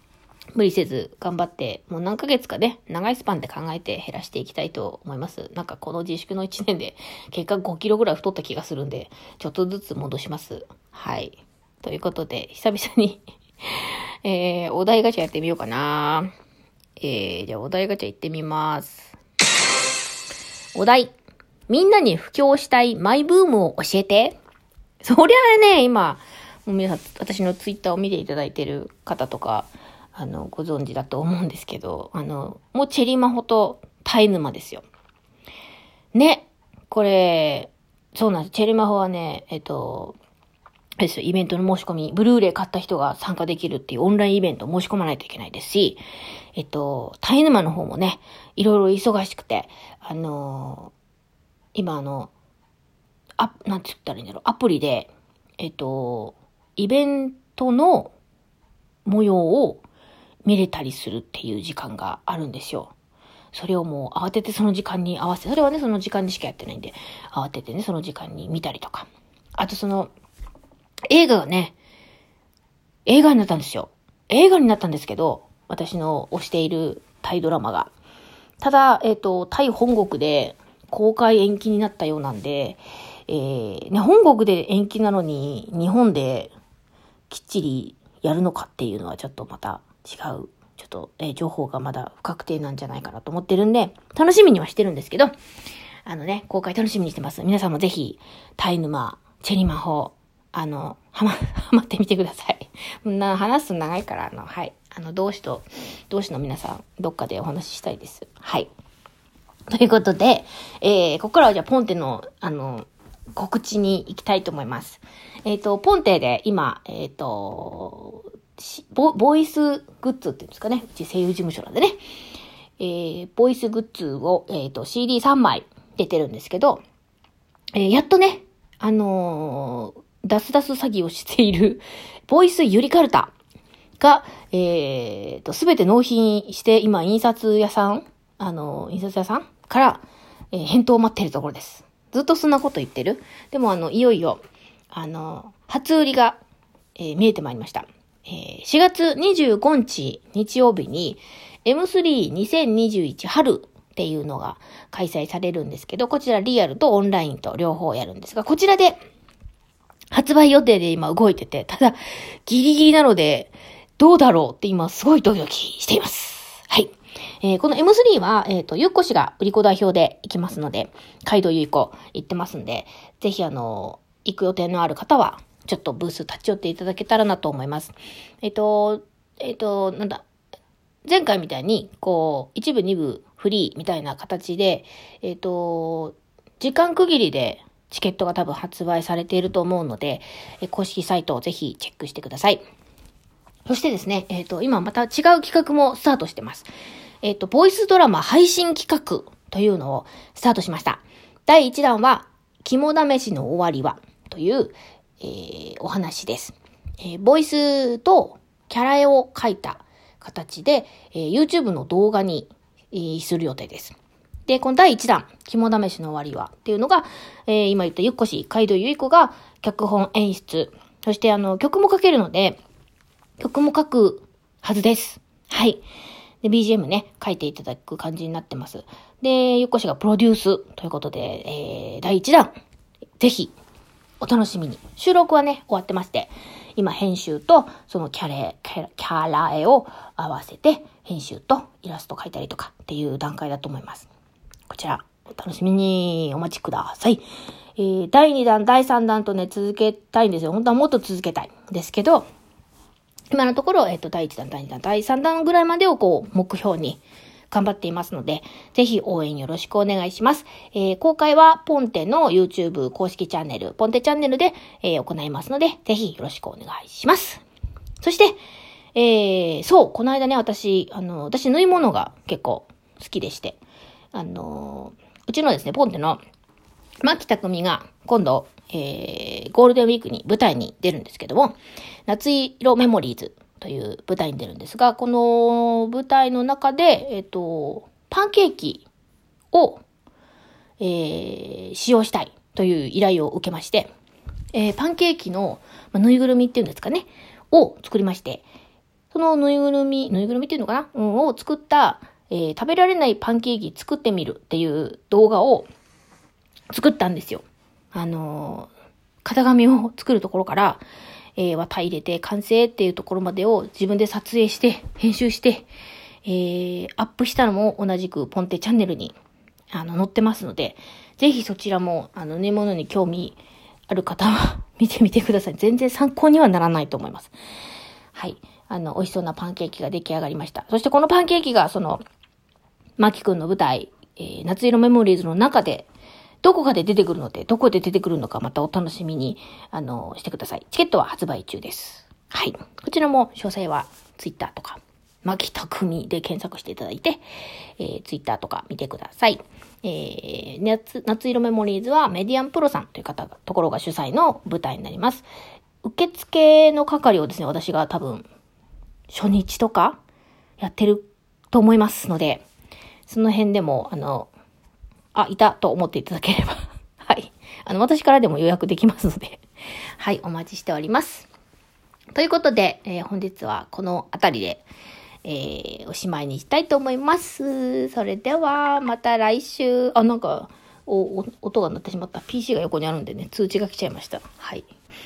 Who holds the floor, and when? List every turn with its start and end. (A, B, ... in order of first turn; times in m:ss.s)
0:00.5-0:16.3 A
0:17.0-0:19.2 A
0:20.7-0:21.1 A
0:21.7-0:24.4 A
0:25.0-0:34.8 A
0:36.1-0:40.2 A
0:41.0-0:46.0 A
0:46.6-0:50.9 A
0:51.7-0:52.3 A
0:53.4-0:58.1 A
0:59.0-0:59.8 A
1:00.4-1:02.9 A
1:03.5-1:10.1 A
1:11.1-1:11.8 A
1:13.0-1:17.9 A
1:18.6-1:26.5 A
1:27.3-1:35.3 A
1:36.0-1:48.7 A
1:49.7-2:02.0 A
2:02.8-2:06.8 A
2:07.7-2:13.3 A
2:14.0-2:24.4 A
2:24.9-2:26.4 A
2:27.0-2:39.0 A
2:40.1-3:00.2 A
3:01.0-3:12.6 A
3:13.6-3:16.7 A
3:17.2-3:42.6 A
3:43.4-3:45.8 A
3:46.4-3:52.5 A
3:53.2-3:53.5 A
3:54.2-4:04.1 A
4:04.7-4:07.2 A
4:07.8-4:12.3 A
4:13.3-4:27.4 A
4:28.0-4:28.4 A
4:28.9-4:33.6 A
4:34.1-4:36.2 A
4:37.0-4:48.8 A
4:49.5-4:49.8 A
4:50.8-4:53.9 A
4:54.5-4:58.4 A
4:59.1-5:05.7 A
5:06.7-5:08.7 A
5:09.2-5:10.8 A
5:11.4-5:15.7 A
5:16.2-5:19.2 A
5:19.7-5:27.3 A
5:28.1-5:32.0 A
5:33.0-5:35.9 A
5:36.4-5:47.2 A
5:47.8-5:55.2 A
5:55.8-5:58.3 A
5:59.1-6:00.0 A
6:00.6-6:02.4 A
6:03.1-6:04.3 A
6:05.1-6:09.4 A
6:10.0-6:11.3 A
6:12.1-6:14.6 A
6:15.2-6:24.7 A